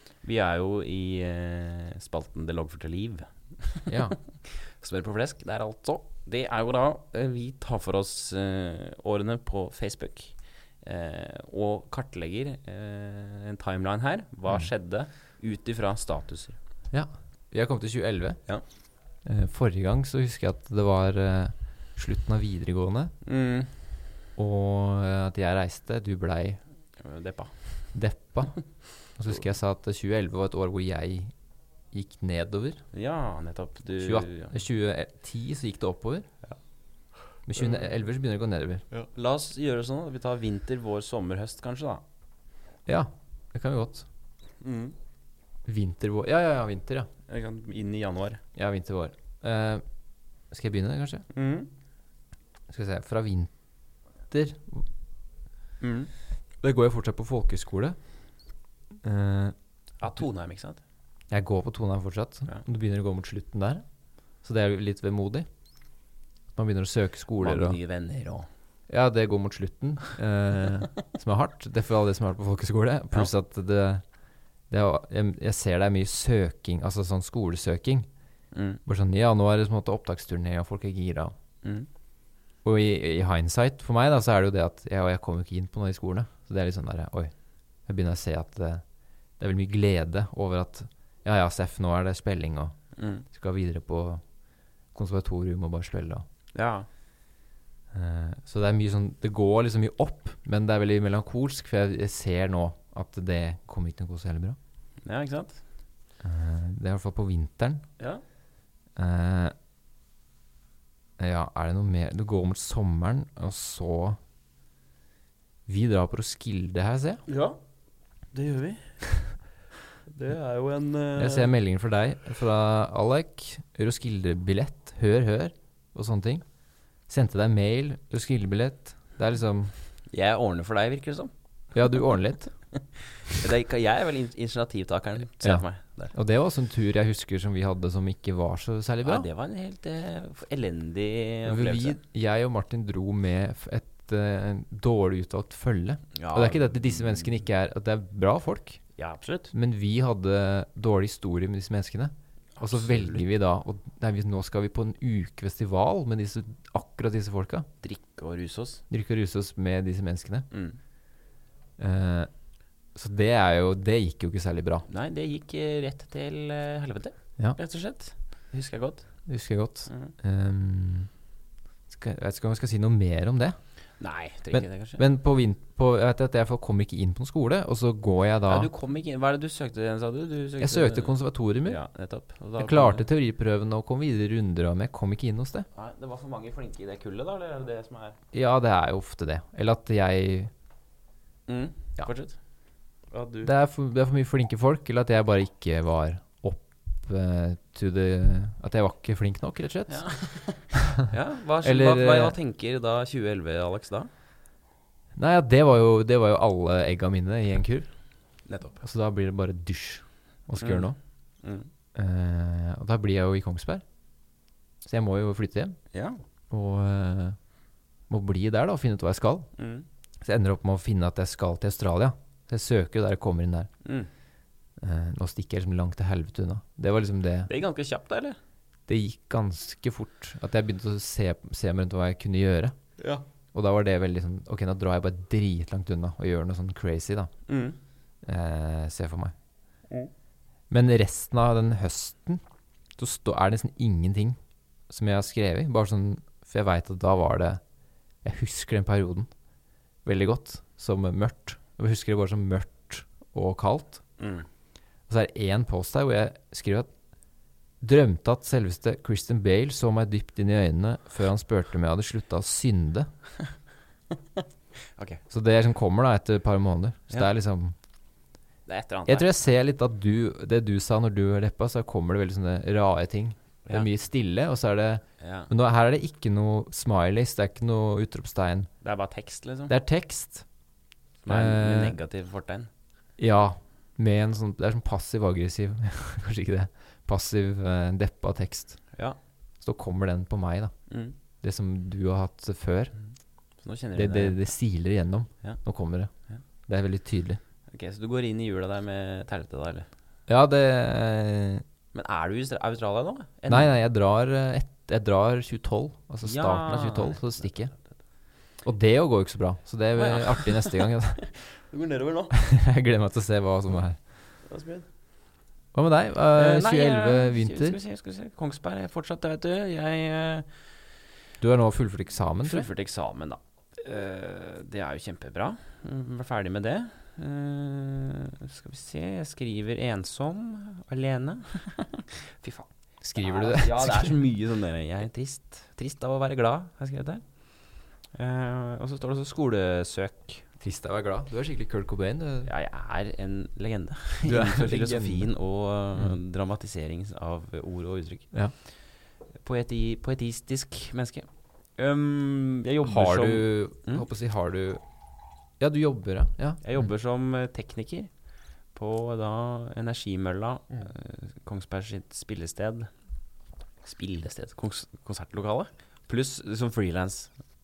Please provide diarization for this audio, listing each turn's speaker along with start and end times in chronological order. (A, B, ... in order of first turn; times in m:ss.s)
0:00.2-0:16.6 A
0:03.9-0:04.2 B
0:16.9-0:18.4 B
0:19.2-0:23.1 B
0:23.2-0:23.9 A
0:24.4-0:26.6 B
0:27.0-0:28.0 A
0:27.9-0:31.3 B
0:31.9-0:32.8 B
0:32.9-0:34.5 A
0:34.0-0:36.3 B
0:37.5-0:38.8 B
0:37.6-0:37.9 A
0:38.9-0:42.0 A
0:42.9-0:44.1 B
0:44.6-0:45.0 A
0:45.6-0:47.1 B
0:47.3-0:48.4 A
0:48.6-0:49.8 B
0:50.5-0:51.3 B
0:51.3-0:51.7 A
0:52.7-0:53.5 B
0:54.3-0:54.9 B
0:55.8-0:56.1 A
0:56.6-0:58.2 B
0:59.0-0:59.6 B
1:00.0-1:00.8 A
1:01.3-1:03.8 B
1:04.4-1:05.5 B
1:06.5-1:07.8 B
1:07.4-1:08.5 A
1:08.9-1:14.0 B
1:14.7-1:18.1 B
1:18.5-1:18.8 A
1:18.8-1:21.3 B
1:21.6-1:21.9 A
1:22.6-1:27.3 B
1:27.9-1:28.8 B
1:29.4-1:34.2 B
1:33.0-1:33.2 A
1:34.9-1:36.2 B
1:36.5-1:36.9 A
1:37.9-1:44.6 B
1:45.0-1:45.6 A
1:46.2-1:47.8 B
1:49.0-1:49.5 B
1:51.2-1:54.2 B
1:55.7-1:57.2 B
1:57.3-1:57.6 A
1:58.3-1:59.0 A
2:00.1-2:01.5 A
2:01.2-2:06.4 B
2:07.1-2:09.7 B
2:10.1-2:11.3 A
2:11.7-2:12.5 B
2:12.7-2:16.1 A
2:15.4-2:19.3 B
2:19.0-2:22.0 A
2:21.5-2:28.8 B
2:26.2-2:27.4 A
2:29.0-2:29.5 A
2:29.5-2:37.7 B
2:32.6-2:33.2 A
2:37.8-2:38.8 A
2:38.9-2:40.5 B
2:40.5-2:40.8 A
2:41.8-2:42.3 B
2:43.0-2:44.8 B
2:44.9-2:49.1 A
2:49.3-2:51.1 B
2:49.9-2:50.1 A
2:51.9-2:53.6 B
2:54.0-2:55.0 A
2:54.5-2:58.7 B
2:58.5-3:03.0 A
3:00.6-3:01.8 B
3:02.6-3:05.7 B
3:05.8-3:08.2 A
3:08.3-3:10.5 B
3:11.5-3:12.4 A
3:13.1-3:13.5 A
3:13.4-3:20.0 B
3:19.9-3:24.1 A
3:21.6-3:22.4 B
3:25.2-3:27.9 B
3:28.5-3:28.8 A
3:28.8-3:31.0 B
3:30.6-3:31.7 A
3:32.0-3:33.8 B
3:34.8-3:35.8 B
3:35.9-3:36.2 A
3:36.5-3:37.4 B
3:38.1-3:39.5 B
3:39.6-3:39.9 A
3:40.2-3:43.7 B
3:43.8-3:44.1 A
3:44.8-3:47.5 B
3:47.5-3:48.4 A
3:48.9-3:52.8 B
3:53.0-3:53.2 A
3:53.5-3:57.3 B
3:57.5-3:57.8 A
3:58.2-3:59.3 B
4:00.7-4:02.4 B
4:03.0-4:04.4 B
4:04.9-4:07.6 B
4:08.2-4:09.3 B
4:10.0-4:14.0 B
4:14.2-4:14.5 A
4:15.1-4:16.9 B
4:17.8-4:23.1 B
4:25.0-4:25.2 A
4:25.3-4:27.8 B
4:28.7-4:29.3 A
4:29.1-4:38.7 B
4:35.2-4:35.5 A
4:38.8-4:39.8 A
4:39.7-4:40.4 B
4:41.2-4:42.7 A
4:41.3-4:42.0 B
4:43.2-4:48.8 B
4:49.6-4:50.7 B
4:50.9-4:51.2 A
4:51.4-4:52.9 B
4:53.6-4:54.4 A
4:54.0-4:56.1 B
4:56.7-4:57.4 B
4:57.7-4:59.9 A
5:00.3-5:01.6 B
5:01.9-5:03.7 A
5:03.5-5:07.7 B
5:06.2-5:07.4 A
5:08.6-5:11.3 B
5:10.0-5:12.4 A
5:12.3-5:14.0 B
5:14.4-5:14.9 A
5:15.7-5:17.8 B
5:16.3-5:20.5 A
5:21.4-5:22.7 B
5:22.4-5:37.2 A
5:33.0-5:34.2 B
5:38.1-5:40.4 A
5:40.6-5:42.5 B
5:42.5-5:48.3 A
5:44.2-5:45.3 B
5:49.4-5:54.0 A
5:52.8-5:54.8 B
5:55.6-5:56.9 B
5:56.6-5:58.1 A
5:58.7-6:02.9 A
6:03.8-6:07.3 A